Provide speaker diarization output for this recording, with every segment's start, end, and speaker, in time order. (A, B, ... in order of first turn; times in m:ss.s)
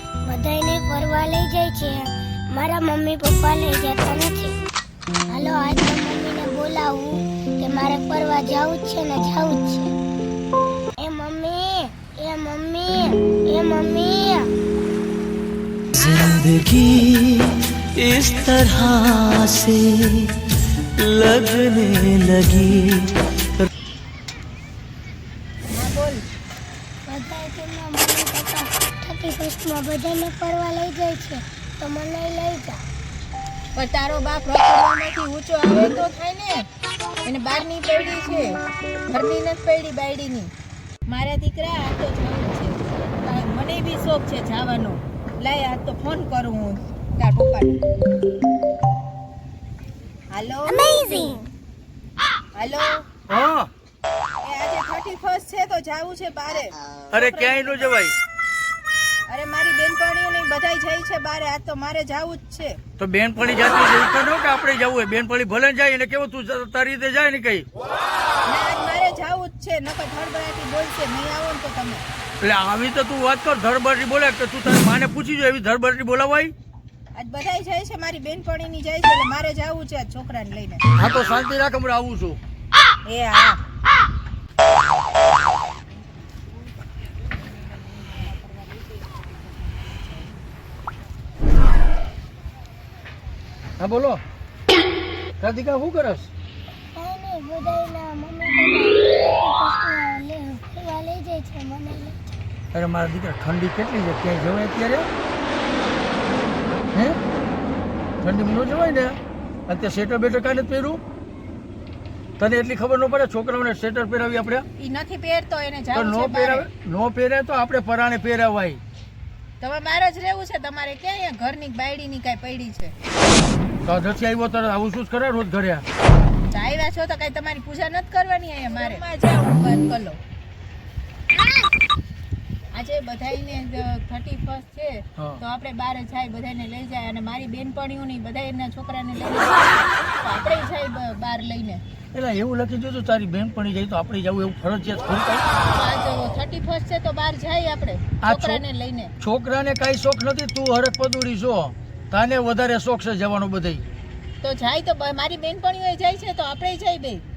0:00.3-0:04.5 A
0:05.3-0:10.0 A
0:11.0-0:14.5 A
0:15.9-0:23.7 B
0:25.7-0:26.2 C
0:27.1-0:32.8 A
0:33.8-0:36.6 C
0:37.3-0:38.5 C
0:39.1-0:40.5 C
0:41.1-0:47.8 C
0:50.3-0:51.4 C
0:52.6-0:53.0 C
0:53.3-0:53.7 D
0:54.4-0:57.9 C
0:57.1-0:58.2 D
0:59.3-1:02.7 C
1:03.0-1:07.7 D
1:08.5-1:12.0 C
1:12.4-1:16.5 D
1:17.2-1:20.8 C
1:21.0-1:22.4 D
1:23.1-1:23.6 C
1:27.4-1:29.2 C
1:33.8-1:34.2 D
1:35.4-1:36.3 D
1:37.0-1:42.2 A
1:42.7-1:45.1 D
1:48.2-1:51.0 D
1:52.4-1:54.6 D
1:54.8-1:56.7 C
1:55.9-1:58.8 D
1:59.6-2:02.9 C
2:03.8-2:05.8 D
2:06.5-2:10.2 C
2:12.7-2:21.8 C
2:22.1-2:25.5 D
2:25.7-2:29.1 C
2:28.2-2:28.6 D
2:29.2-2:33.8 D
2:34.4-2:37.2 C